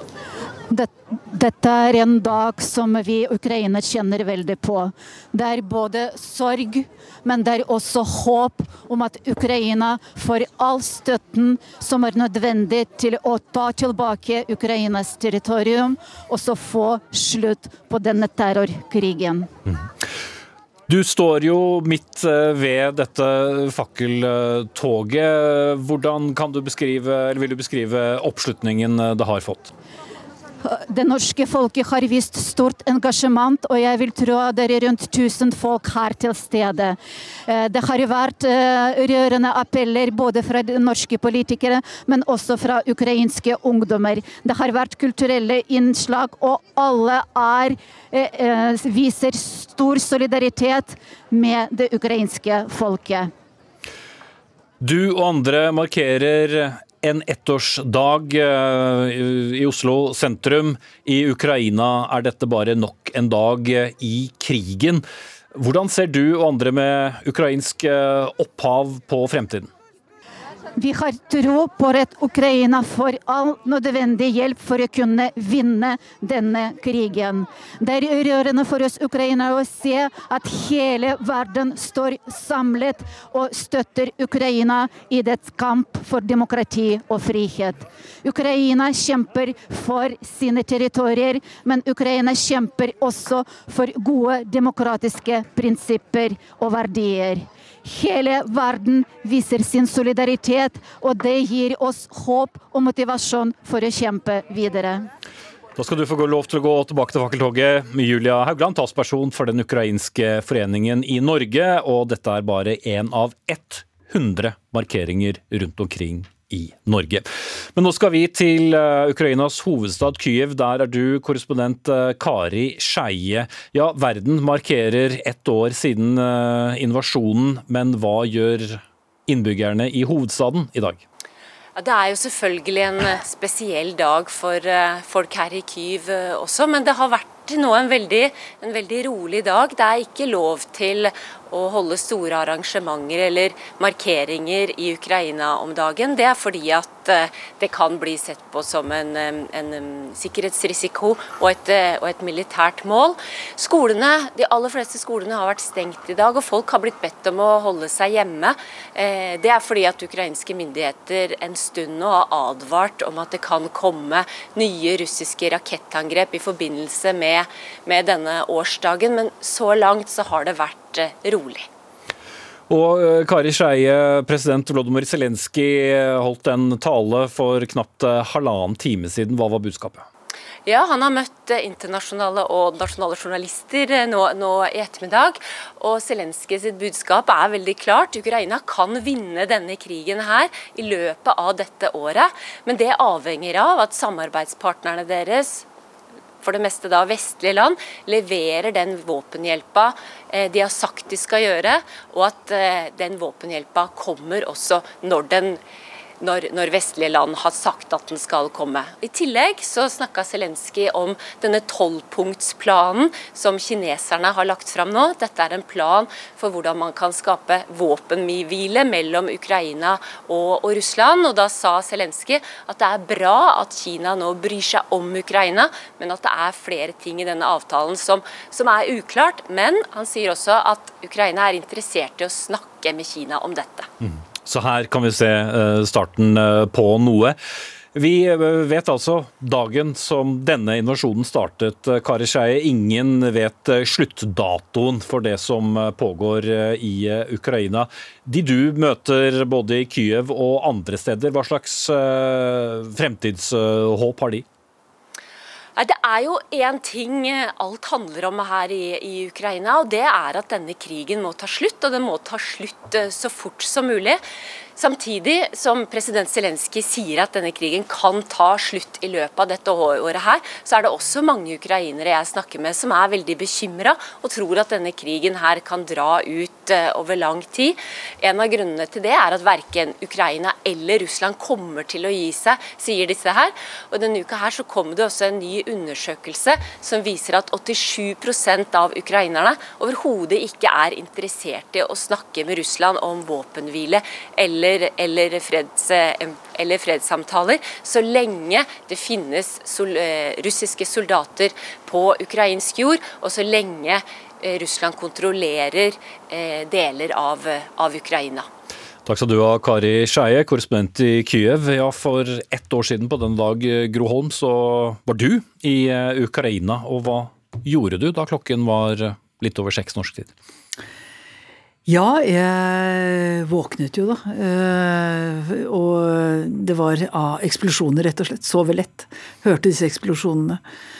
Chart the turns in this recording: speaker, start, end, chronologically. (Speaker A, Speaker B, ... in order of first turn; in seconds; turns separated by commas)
Speaker A: 0.7-19.5, Speaker B: 20.9-29.7, Speaker A: 30.6-53.3, Speaker B: 54.8-69.7, Speaker A: 70.8-105.1, Speaker B: 105.8-131.0, Speaker C: 131.8-171.7, Speaker B: 172.7-180.1, Speaker C: 180.6-195.7, Speaker C: 196.4-205.6, Speaker C: 206.2-233.9, Speaker B: 234.0-237.4, Speaker B: 237.9-254.4, Speaker C: 255.8-264.2, Speaker C: 264.8-308.5, Speaker B: 309.1-320.3, Speaker D: 321.9-330.6